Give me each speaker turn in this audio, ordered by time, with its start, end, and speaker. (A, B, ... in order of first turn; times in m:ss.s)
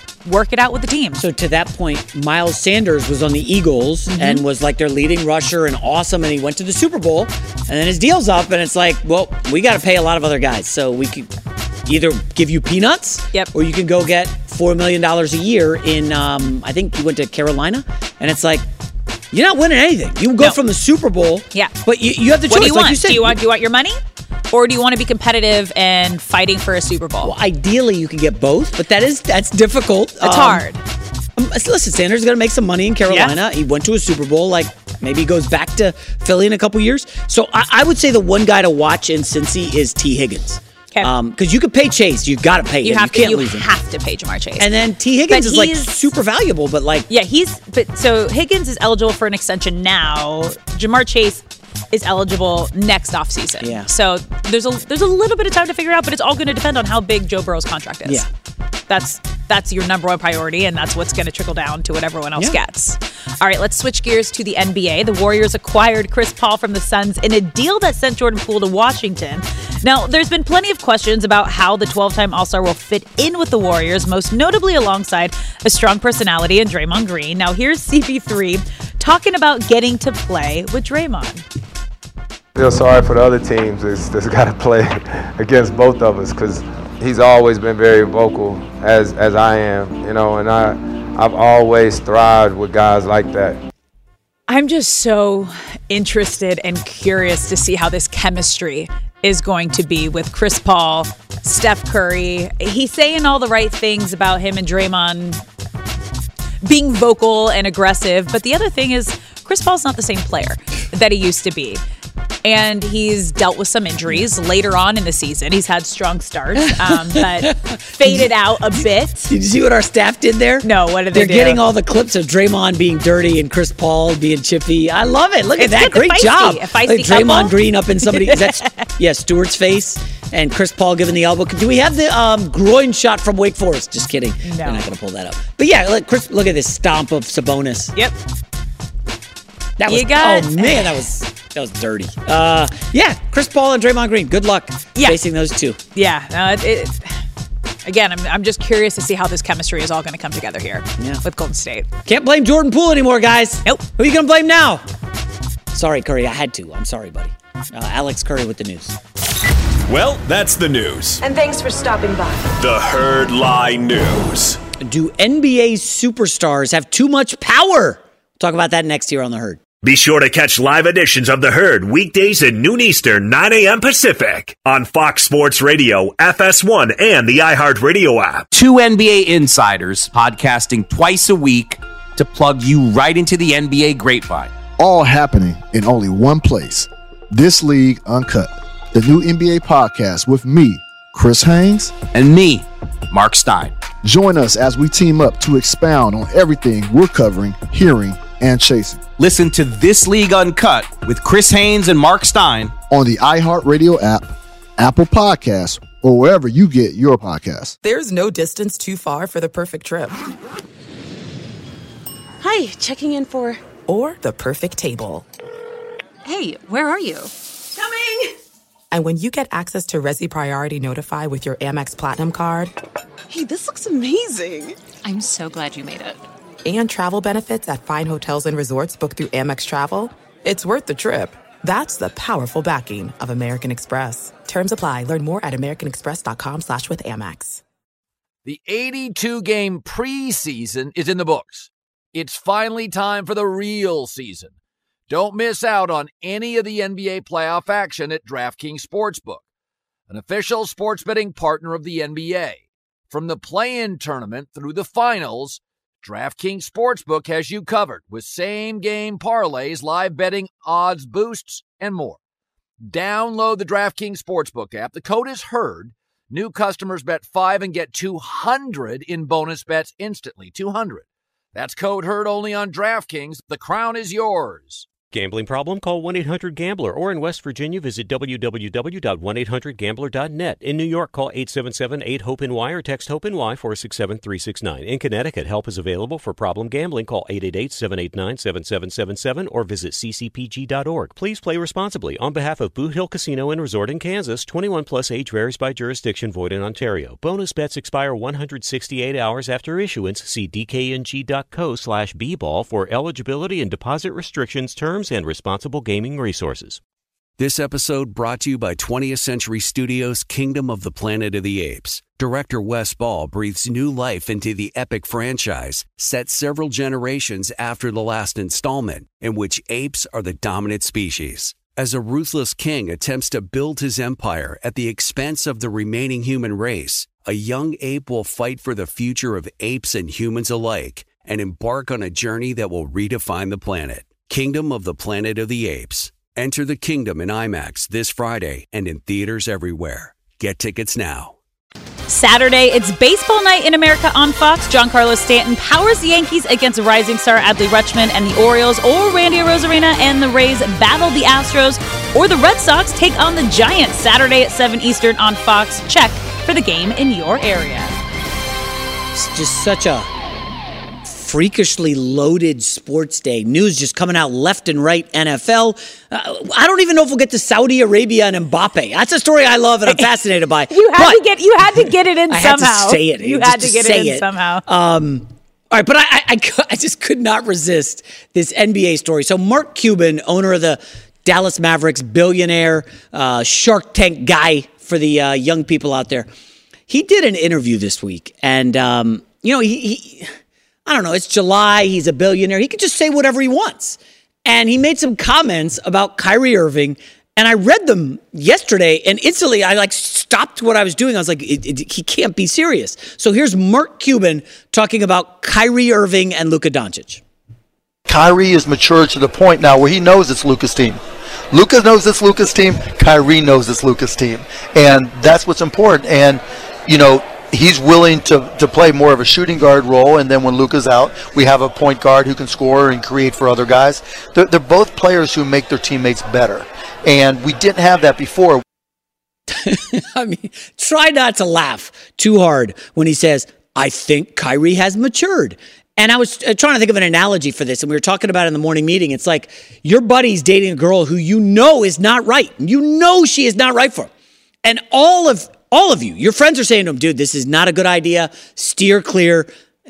0:00.2-0:01.2 A
0:01.2-0:11.3 B
0:04.1-0:04.4 A
0:11.9-0:18.7 B
0:19.3-0:23.4 B
0:22.5-0:24.0 A
0:24.5-0:27.3 A
0:27.2-0:30.6 B
0:30.2-0:30.8 A
0:31.4-0:43.7 B
0:33.1-0:33.4 A
0:42.8-0:44.7 A
0:44.6-0:47.1 B
0:45.3-0:46.0 A
0:47.1-0:58.2 A
0:53.6-0:53.9 B
0:58.9-1:21.4 A
1:22.6-1:33.6 C
1:34.5-1:45.4 A
1:46.6-1:51.8 A
1:52.4-1:59.3 A
1:56.6-2:17.9 B
2:00.6-2:01.6 A
2:05.6-2:07.5 A
2:08.1-2:08.8 A
2:14.4-2:14.8 A
2:19.8-2:25.8 B
2:19.9-2:21.0 A
2:26.0-2:27.2 A
2:27.8-2:31.9 A
2:32.1-2:34.8 B
2:35.7-2:39.0 B
2:39.9-2:41.2 D
2:41.2-2:42.5 E
2:42.6-2:44.6 D
2:44.8-2:49.6 B
2:49.8-2:58.5 D
2:58.5-3:04.5 F
3:04.8-3:12.0 G
3:12.1-3:13.8 F
3:14.0-3:19.1 G
3:19.2-3:22.8 F
3:22.9-3:27.8 G
3:27.8-3:30.2 H
3:32.4-3:33.6 E
3:33.9-3:35.3 H
3:36.2-3:38.1 E
3:38.9-3:42.7 H
3:43.3-3:46.2 E
3:46.6-3:57.6 H
3:58.4-4:04.5 I
4:05.1-4:09.4 I
4:10.1-4:22.2 I
4:22.8-4:34.9 I
4:35.1-5:06.8 J
5:07.4-5:41.4 K
5:42.1-5:58.0 A
5:59.1-6:00.1 B
6:01.0-6:26.3 B
6:10.7-6:14.6 A
6:26.9-6:30.3 B
6:30.9-6:47.2 B
6:48.1-6:51.0 L
6:51.5-7:08.6 L
7:09.5-7:24.1 B
7:24.6-7:29.5 B